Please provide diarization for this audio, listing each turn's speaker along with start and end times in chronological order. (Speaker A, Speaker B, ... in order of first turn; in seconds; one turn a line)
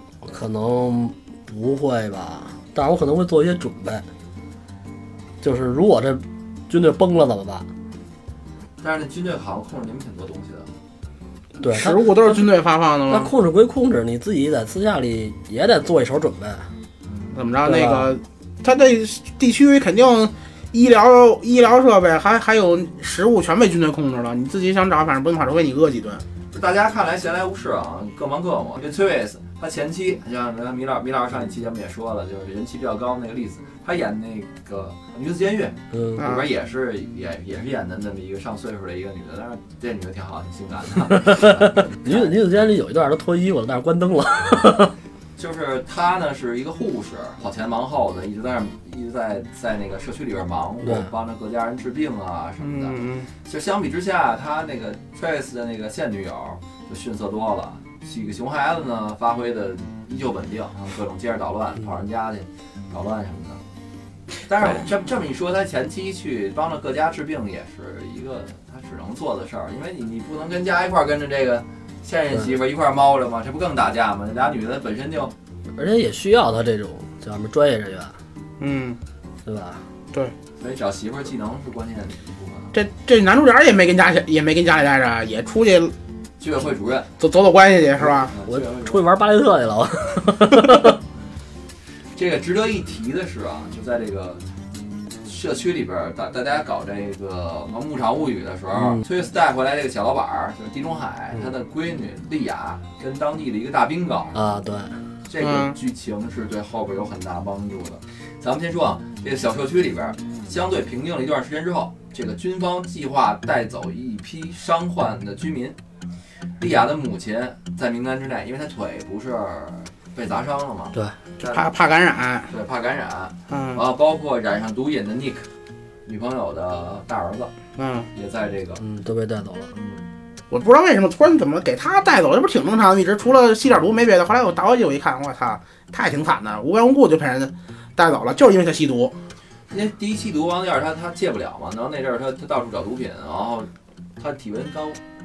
Speaker A: 0.2-4.0
Speaker A: 5.4-7.7
Speaker B: 8.8-10.7
Speaker A: 11.6-12.4
Speaker C: 11.7-13.3
Speaker A: 13.1-16.7
Speaker B: 17.1-17.4
Speaker C: 17.3-26.2
Speaker A: 17.6-18.1
Speaker B: 26.5-42.3
Speaker A: 35.9-36.2
Speaker C: 36.2-36.5
Speaker A: 41.1-44.9
Speaker B: 45.4-63.6
Speaker A: 50.8-51.1
Speaker C: 52.6-53.3
Speaker B: 64.5-75.3
Speaker A: 75.8-78.1
Speaker C: 78.6-79.0
Speaker A: 79.4-79.8
Speaker B: 80.6-82.7
Speaker C: 82.7-85.9
Speaker B: 86.4-87.1
Speaker C: 87.2-88.3
Speaker B: 88.0-89.0
Speaker A: 88.5-91.0
Speaker B: 92.2-94.4
Speaker B: 95.2-104.4
Speaker A: 98.8-99.0
Speaker A: 104.3-105.0
Speaker B: 105.3-115.8
Speaker C: 105.4-105.8
Speaker B: 116.6-121.7
Speaker C: 121.4-122.5
Speaker B: 122.5-125.5
Speaker C: 123.5-123.8
Speaker B: 126.0-127.5
Speaker C: 127.8-128.1
Speaker B: 128.1-128.8
Speaker A: 128.8-129.7
Speaker B: 129.7-130.1
Speaker C: 130.5-139.1
Speaker B: 139.7-145.0